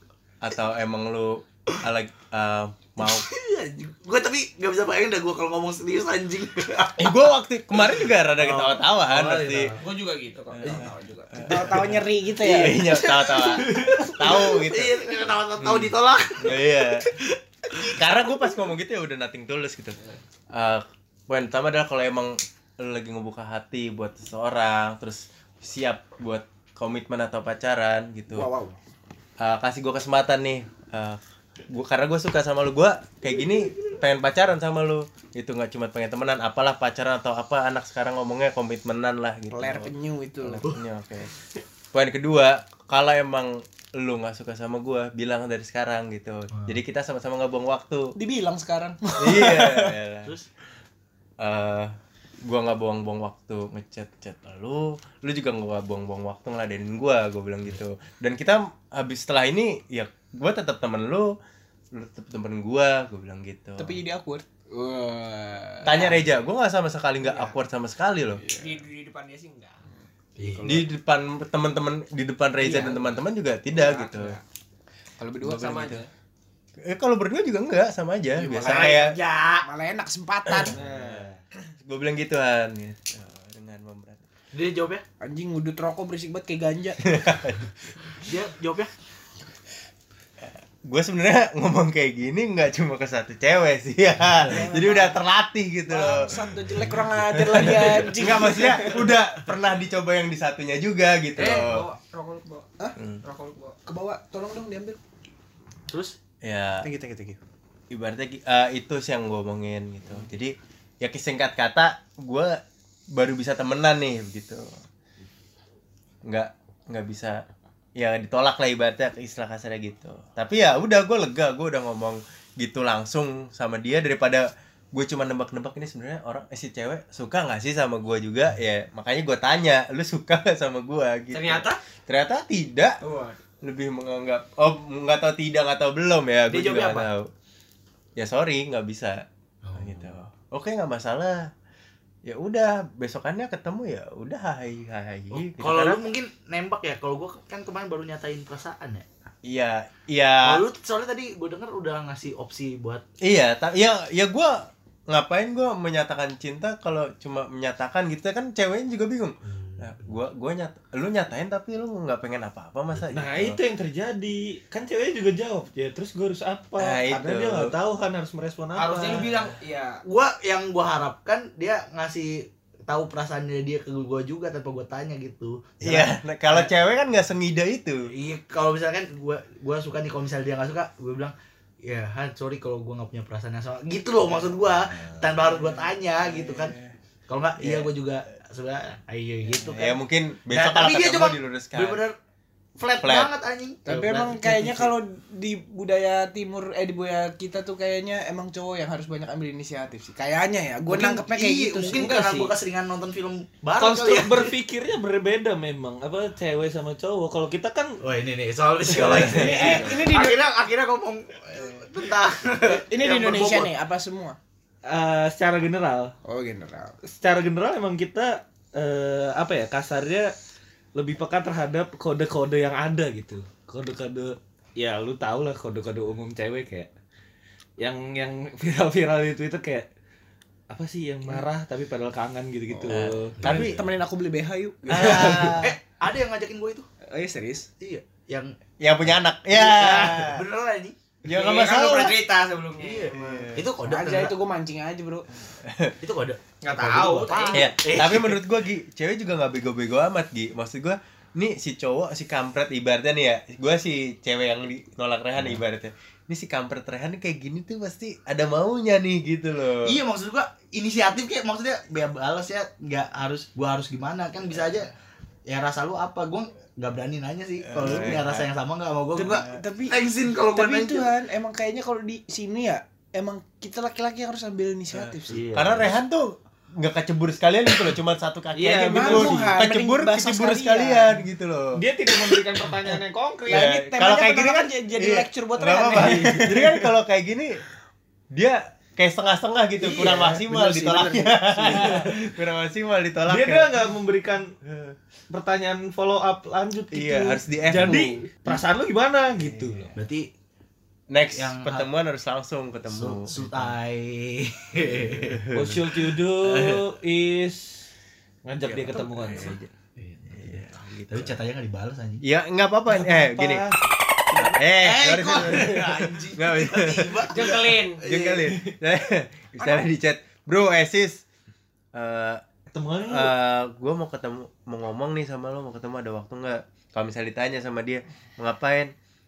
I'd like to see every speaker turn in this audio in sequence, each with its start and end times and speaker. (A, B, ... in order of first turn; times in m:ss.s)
0:00.4-0:03.3 A
0:03.0-0:07.3 B
0:07.0-0:09.7 A
0:08.3-0:09.8 B
0:09.8-0:11.4 C
0:10.5-0:15.0 A
0:11.4-0:12.8 D
0:12.8-0:18.0 B
0:15.6-0:17.1 A
0:17.8-0:20.0 A
0:20.5-0:28.5 A
0:28.3-0:28.8 D
0:29.4-0:41.3 A
0:39.5-0:40.7 D
0:41.9-0:48.1 A
0:46.5-0:46.8 B
0:48.2-0:50.0 D
0:49.2-0:50.3 A
0:51.4-1:01.3 A
1:01.9-1:04.0 A
1:03.8-1:06.2 D
1:05.8-1:08.4 A
1:07.2-1:07.5 D
1:08.4-1:08.8 D
1:08.5-1:09.8 C
1:10.4-1:10.8 B
1:10.4-1:10.8 D
1:10.6-1:14.4 A
1:12.6-1:13.2 D
1:13.7-1:14.4 D
1:15.2-1:16.0 D
1:15.4-1:16.0 A
1:15.4-1:16.0 C
1:16.8-1:19.1 A
1:18.4-1:19.1 D
1:18.6-1:19.7 C
1:19.6-1:21.2 D
1:20.4-1:21.1 A
1:20.8-1:21.3 E
1:21.8-1:24.2 A
1:24.5-1:25.0 B
1:25.2-1:27.2 D
1:27.0-1:27.6 A
1:28.2-1:28.9 B
1:30.8-1:36.4 A
1:34.4-1:35.2 D
1:35.9-1:39.2 D
1:37.3-1:41.8 A
1:41.4-1:42.7 C
1:43.2-1:43.8 C
1:43.8-1:45.0 D
1:45.9-1:46.2 B
1:46.4-1:46.9 A
1:46.8-1:47.4 D
1:47.9-1:52.6 A
1:53.1-1:54.7 A
1:56.2-1:57.4 A
1:58.0-2:13.0 A
2:11.3-2:11.8 C
2:13.0-2:13.4 C
2:13.6-2:17.3 A
2:16.5-2:17.1 B
2:18.2-2:21.5 A
2:19.6-2:20.1 B
2:22.2-2:26.1 A
2:25.3-2:29.0 B
2:29.4-2:30.6 A
2:30.4-2:33.0 B
2:33.2-2:43.6 A
2:39.4-2:40.1 B
2:43.0-2:49.3 E
2:46.8-2:47.7 A
2:48.7-2:50.0 C
2:49.0-2:49.5 B
2:50.0-2:56.7 B
2:55.8-2:58.1 A
2:58.1-3:06.8 B
3:06.2-3:06.9 A
3:07.3-3:10.0 B
3:07.6-3:07.9 A
3:09.7-3:12.0 A
3:10.5-3:12.1 B
3:12.8-3:14.9 B
3:13.0-3:13.3 A
3:13.8-3:22.2 D
3:20.9-3:24.5 B
3:22.0-3:22.5 E
3:23.8-3:28.0 E
3:28.0-3:33.7 B
3:29.1-3:30.4 D
3:29.2-3:30.0 A
3:32.6-3:34.4 D
3:34.8-3:36.1 E
3:36.2-3:37.0 D
3:37.0-3:40.3 E
3:41.0-3:46.9 E
3:47.8-3:49.9 E
3:50.7-3:53.5 E
3:52.7-3:55.6 D
3:52.9-3:53.8 A
3:54.9-3:55.7 A
3:55.0-3:56.9 B
3:57.1-3:57.7 D
3:57.8-3:58.5 B
3:58.8-4:00.4 A
3:59.0-4:00.9 B
4:01.2-4:02.2 A
4:01.3-4:03.1 C
4:02.8-4:04.3 B
4:03.1-4:03.6 A
4:03.1-4:05.2 D
4:05.6-4:05.9 A
4:06.0-4:08.4 B
4:06.6-4:07.7 C
4:07.5-4:20.0 A
4:19.8-4:24.9 B
4:25.4-4:31.1 B
4:27.6-4:28.4 A
4:27.8-4:28.1 D
4:29.1-4:30.0 D
4:30.5-4:35.4 D
4:34.9-4:47.6 A
4:35.3-4:35.9 E
4:38.5-4:39.6 E
4:38.8-4:41.2 D
4:41.7-4:43.8 E
4:43.5-4:46.7 D
4:45.9-4:46.7 E
4:48.3-4:53.8 A
4:49.8-4:52.0 D
4:50.0-4:50.4 E
4:51.6-4:52.1 E
4:53.2-4:54.5 E
4:54.6-4:55.0 A
4:55.3-5:00.0 E
4:56.9-4:58.2 A
4:59.4-4:59.9 A
5:00.0-5:00.3 B
5:01.1-5:03.4 A
5:01.3-5:01.9 B
5:02.8-5:05.4 B
5:05.3-5:05.9 A
5:05.5-5:07.9 E
5:08.4-5:09.6 E
5:08.6-5:09.6 A
5:10.0-5:12.2 B
5:10.3-5:11.4 A
5:12.2-5:13.6 A
5:12.9-5:13.8 E
5:14.3-5:18.5 B
5:14.4-5:21.2 A
5:17.3-5:18.0 C
5:21.9-5:22.4 A
5:22.7-5:23.3 E
5:23.0-5:28.9 A